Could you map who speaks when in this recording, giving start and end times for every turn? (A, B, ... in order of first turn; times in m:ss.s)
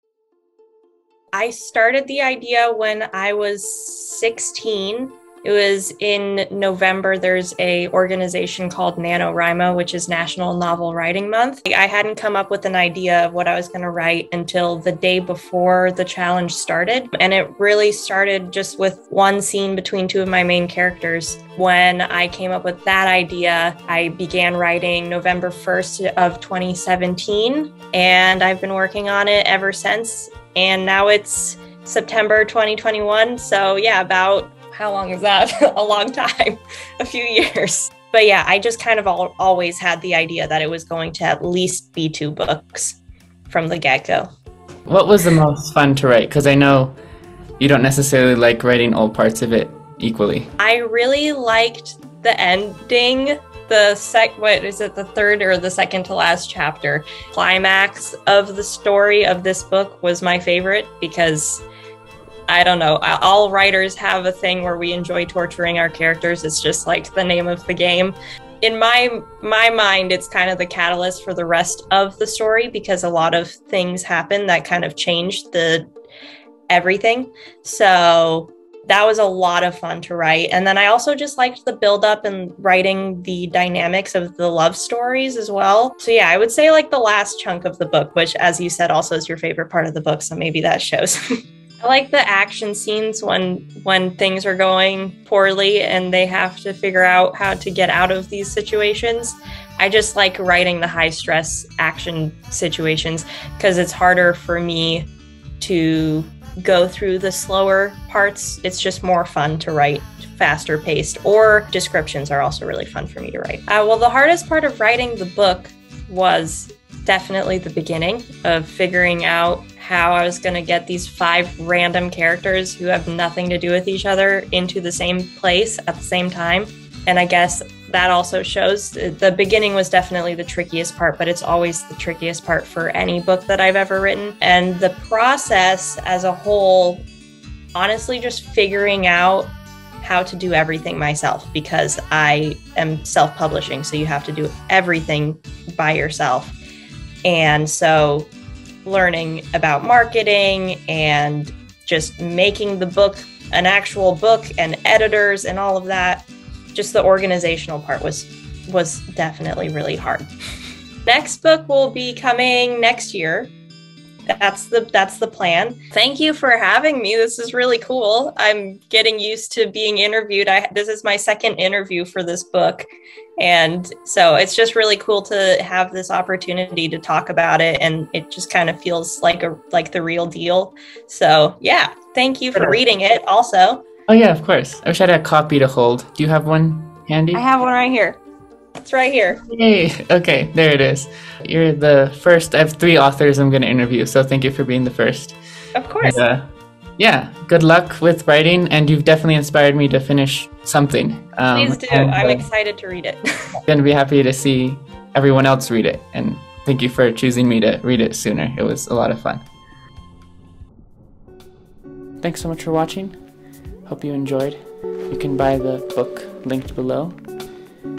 0:01.4-0:44.3 A
0:44.9-0:47.0 B
0:47.6-0:50.5 B
0:50.6-1:01.6 A
1:02.5-1:15.9 A
1:16.7-1:31.2 A
1:31.8-1:45.1 A
1:45.6-2:17.1 A
2:17.8-2:26.6 A
2:27.2-2:28.3 A
2:28.8-2:40.3 A
2:41.0-2:43.5 A
2:44.3-2:52.9 A
2:53.4-3:03.9 A
3:04.1-3:07.4 B
3:07.3-3:08.2 A
3:08.8-3:09.4 A
3:09.5-3:15.4 B
3:15.8-3:16.2 A
3:16.0-3:22.4 B
3:21.5-3:23.6 A
3:23.7-3:29.5 B
3:32.2-3:33.3 B
3:33.8-3:37.3 B